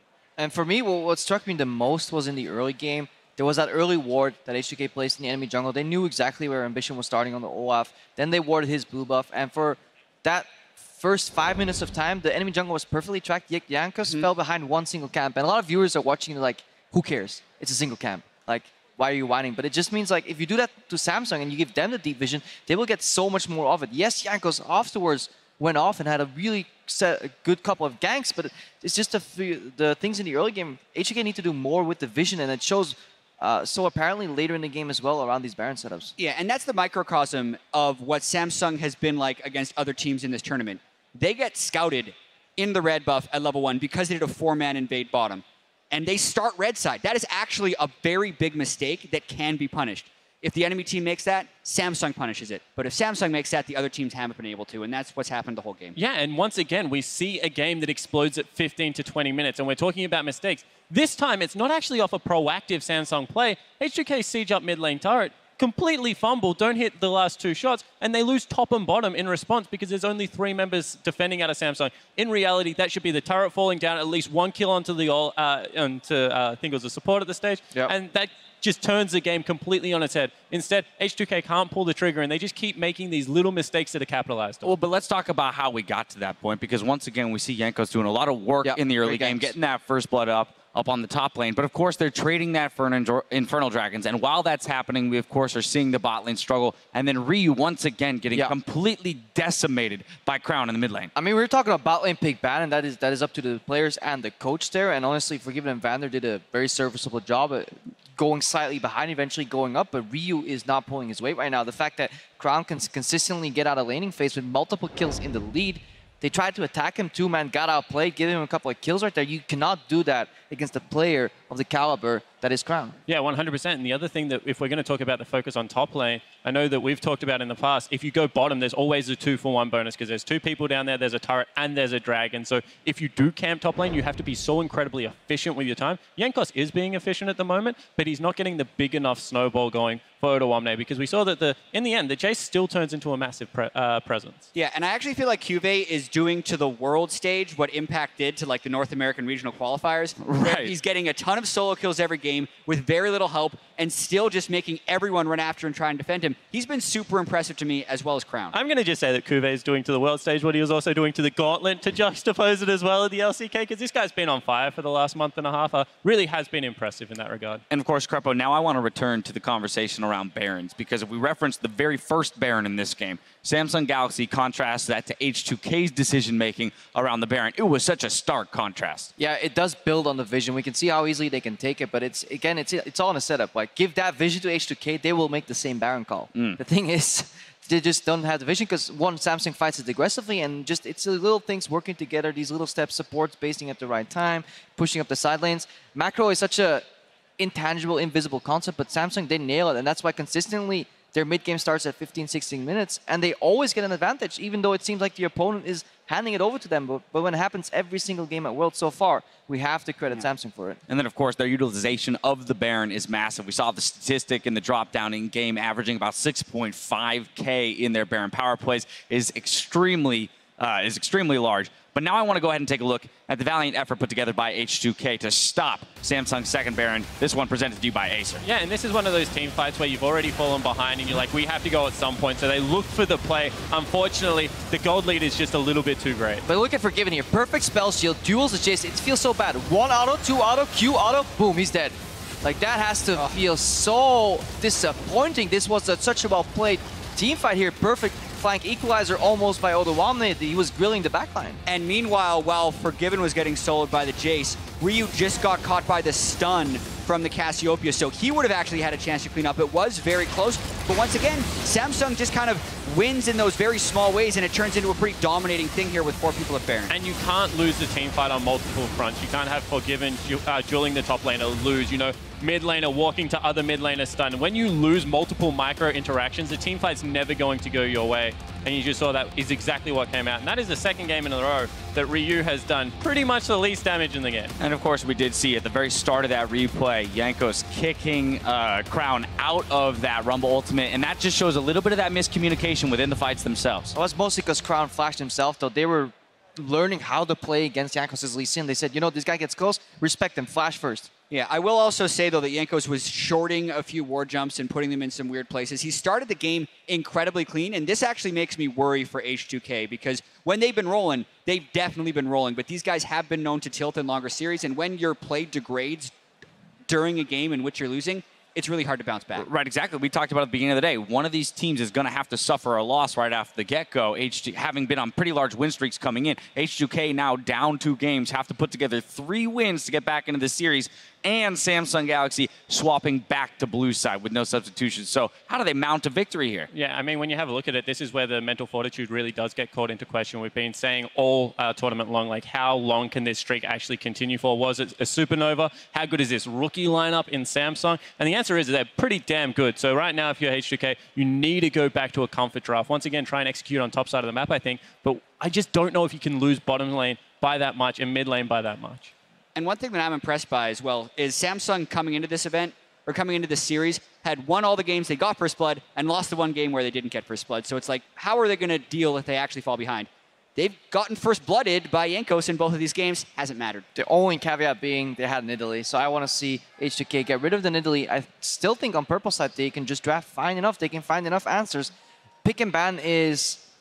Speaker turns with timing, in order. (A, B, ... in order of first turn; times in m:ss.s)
0:00.4-0:36.1 A
0:36.2-0:56.0 B
0:56.0-1:24.7 C
1:24.6-1:41.1 D
1:28.6-1:29.5 A
1:41.1-2:03.0 A
2:03.1-2:24.5 C
2:24.5-2:38.6 B
2:30.2-2:30.7 D
2:38.5-2:47.6 C
2:47.7-2:59.1 D
2:59.2-3:16.8 A
3:06.3-3:06.6 D
3:17.4-3:30.8 A
3:30.9-3:48.4 D
3:48.4-3:56.4 C
3:56.4-4:11.6 A
4:11.6-4:26.9 B
4:26.9-4:44.5 C
4:44.6-4:53.9 D
4:53.9-5:01.1 A
5:01.3-5:16.1 B
5:16.9-5:19.5 B
5:19.3-5:36.7 D
5:36.7-5:59.1 C
5:59.5-6:13.8 B
6:13.9-6:21.9 A
6:22.4-6:23.6 A